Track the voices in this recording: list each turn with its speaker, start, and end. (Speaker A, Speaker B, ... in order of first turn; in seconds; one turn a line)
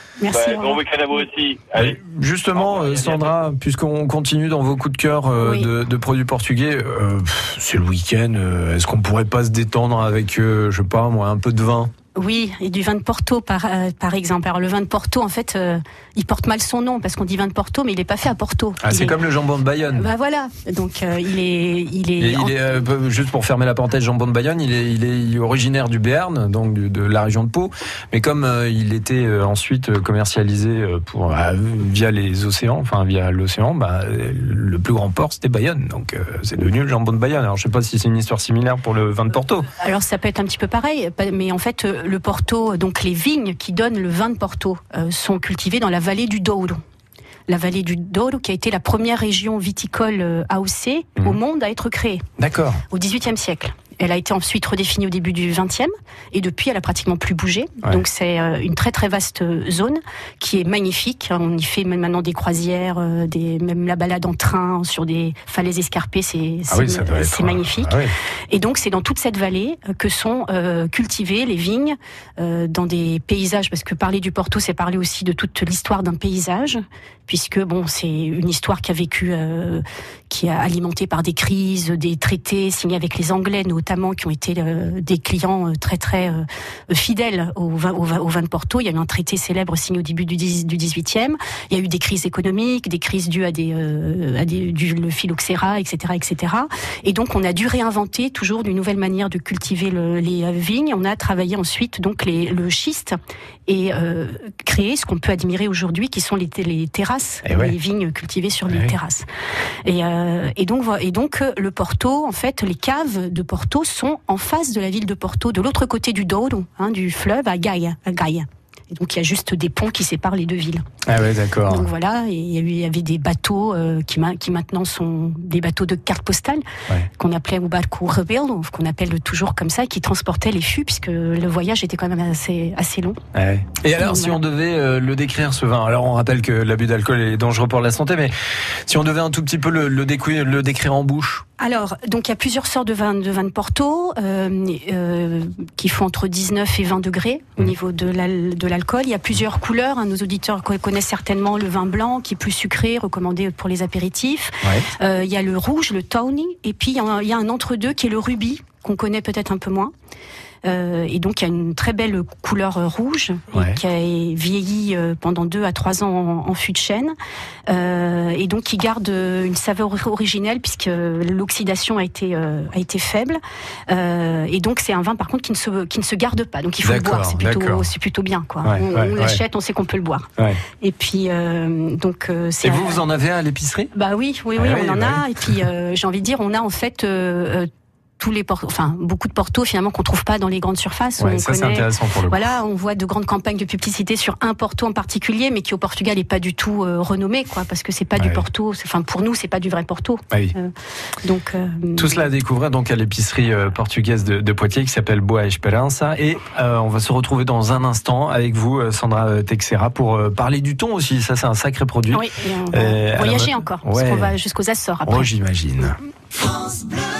Speaker A: 0.2-0.8
Speaker B: 0.3-2.0
Speaker C: 1.7-11.9
Speaker B: 2.5-3.3
Speaker A: 5.4-5.7
Speaker A: 12.1-19.2
Speaker C: 18.8-20.1
Speaker A: 19.9-22.5
Speaker C: 22.2-39.7
Speaker A: 39.8-46.8
Speaker A: 47.5-52.2
Speaker C: 52.4-52.8
Speaker A: 52.9-68.0
Speaker C: 66.7-68.1
Speaker A: 68.5-103.2
Speaker A: 103.7-109.2
Speaker C: 107.4-107.7
Speaker A: 109.8-120.8
Speaker C: 121.0-121.9
Speaker A: 121.7-126.6
Speaker A: 127.2-133.2
Speaker C: 133.3-138.3
Speaker A: 133.9-134.4
Speaker C: 138.9-141.4
Speaker A: 141.6-159.9
Speaker C: 154.6-154.9
Speaker A: 160.6-167.1
Speaker C: 163.5-163.8
Speaker A: 167.7-180.3
Speaker C: 176.8-177.9
Speaker C: 178.6-179.4
Speaker A: 180.8-183.0
Speaker C: 182.6-183.9
Speaker A: 183.9-187.7
Speaker C: 184.6-185.5
Speaker A: 188.2-200.7
Speaker C: 191.2-192.4
Speaker C: 198.2-198.4
Speaker A: 201.2-202.2
Speaker C: 202.0-214.3
Speaker A: 212.1-215.3
Speaker C: 215.0-216.0